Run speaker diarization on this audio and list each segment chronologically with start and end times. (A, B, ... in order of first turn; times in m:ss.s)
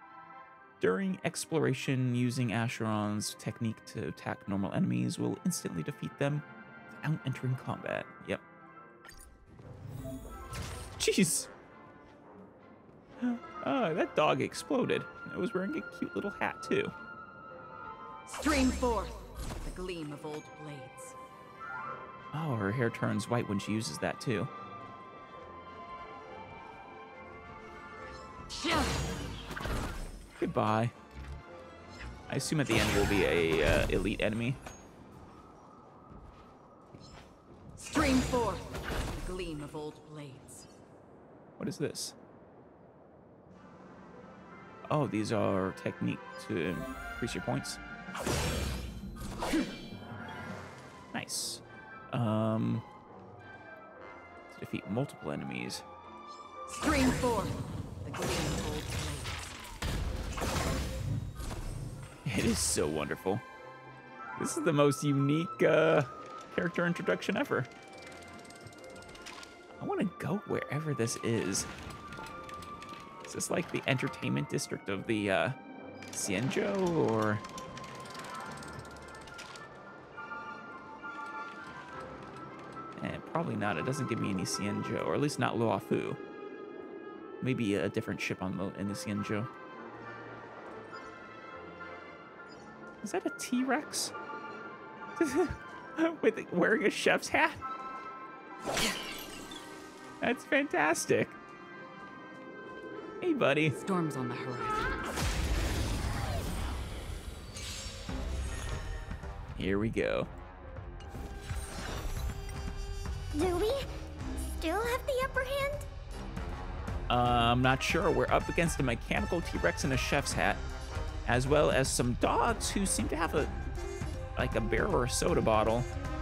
0:00.8-0:06.4 A
0:07.0-0:08.4 A
0:11.0-0:11.5 A
0:13.2-0:16.9 A
0:18.2-0:21.1 B
0:22.3-0:24.5 A
0:28.5-0:29.0 B
0:30.4-0:30.9 A
0:32.3-0:34.6 A
0:37.8-0:40.7 B
0:41.6-0:42.2 A
0:44.9-0:47.8 A
0:51.1-0:52.8 A
0:54.5-0:55.8 A
0:56.7-0:59.6 B
1:02.2-1:03.4 A
1:04.4-1:07.7 A
1:09.8-1:11.7 A
1:13.2-1:15.6 A
1:16.1-1:17.4 A
1:23.0-1:26.2 A
1:27.4-1:29.5 A
1:33.0-1:34.1 A
1:35.2-1:37.6 A
1:40.2-1:41.4 A
1:43.2-1:43.8 A
1:43.8-1:45.0 B
1:49.6-1:50.3 A
1:53.3-1:53.9 C
1:54.4-1:55.9 C
1:57.1-2:00.6 A
2:01.2-2:03.5 A
2:04.4-2:05.9 A